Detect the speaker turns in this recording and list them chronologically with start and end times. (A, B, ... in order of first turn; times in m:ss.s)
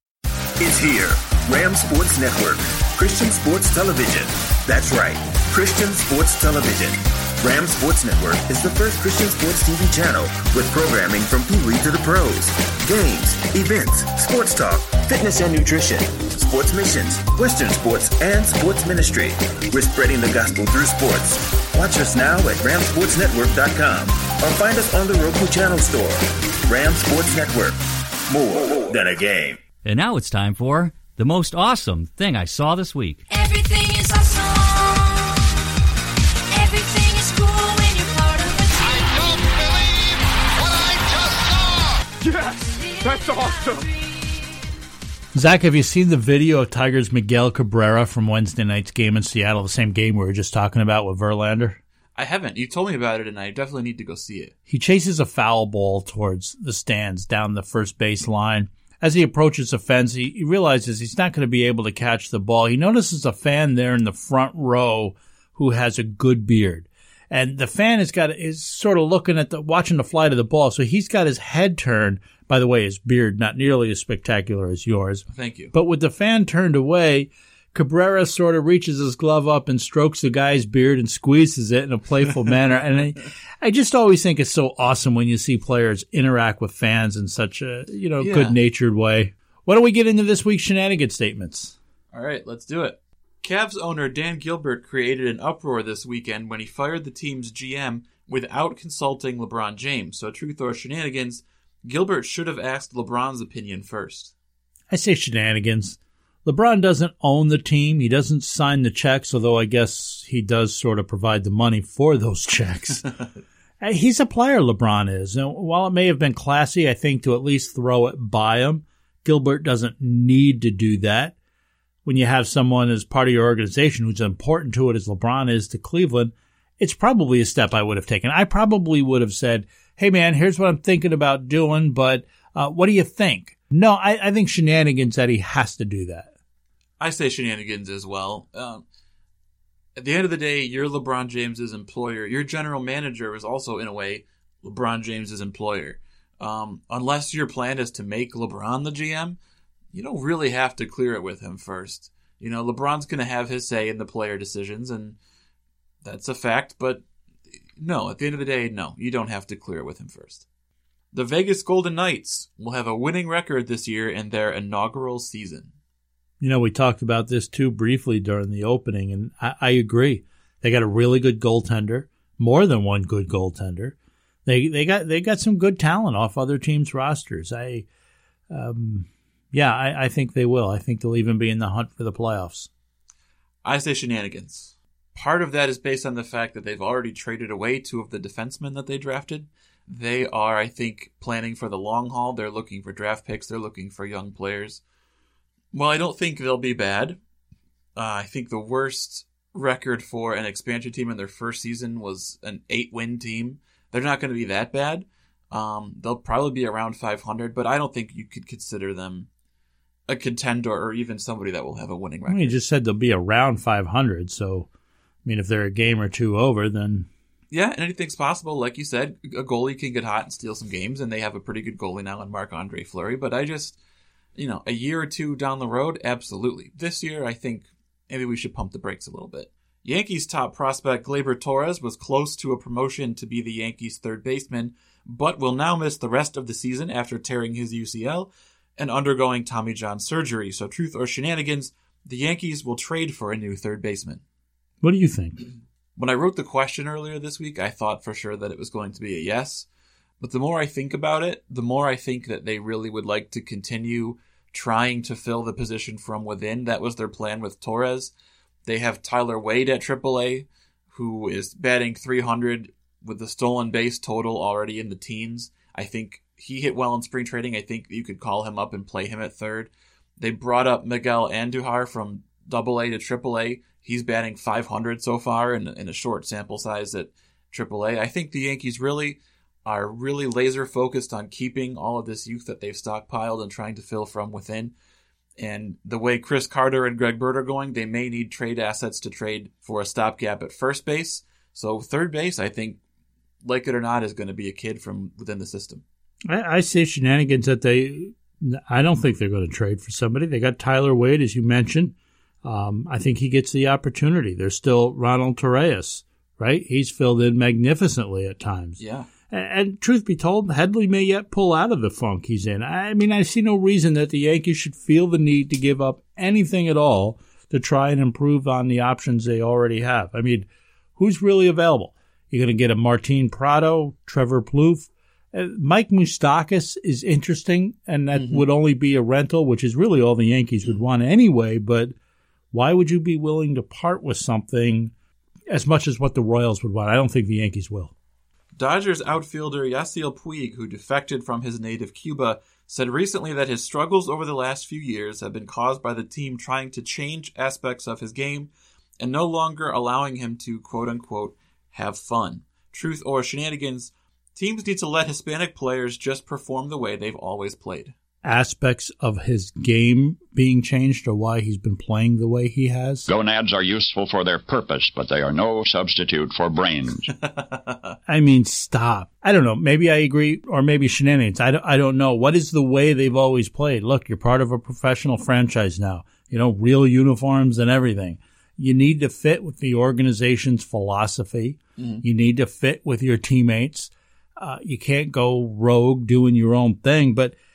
0:00.6-0:29.6 A
0:29.8-0:33.2 B
0:33.3-0:35.4 C
0:36.5-0:44.1 C
0:45.3-0:51.8 D
0:52.2-0:54.5 E
0:54.7-1:31.8 D
1:15.3-1:15.7 E
1:28.2-1:28.6 E
1:32.1-1:44.3 E
1:44.9-1:53.1 D
1:53.8-2:01.4 D
2:02.0-2:16.3 D
2:17.0-2:18.8 E
2:20.0-2:29.4 E
2:29.9-2:35.2 E
2:36.0-2:37.0 E
2:37.8-2:40.4 E
2:41.1-2:45.7 E
2:46.4-2:57.9 D
2:58.5-3:02.7 D
3:03.6-3:14.8 E
3:15.7-3:17.2 E
3:18.0-3:29.3 E
3:30.1-3:32.6 E
3:32.3-3:34.7 D
3:35.2-3:37.1 D
3:37.5-3:43.8 E
3:44.4-4:04.2 E
4:04.8-4:05.4 D
4:06.0-4:09.7 E
4:10.2-4:18.1 E
4:18.7-4:44.7 E
4:45.4-4:52.8 E
4:53.4-4:55.8 E
4:56.3-5:32.0 D
5:08.8-5:09.1 E
5:32.5-5:34.9 D
5:35.5-5:37.9 D
5:38.6-5:57.9 E
5:58.2-6:03.0 D
6:03.1-6:07.1 F
6:07.4-6:07.8 E
6:08.1-6:27.4 D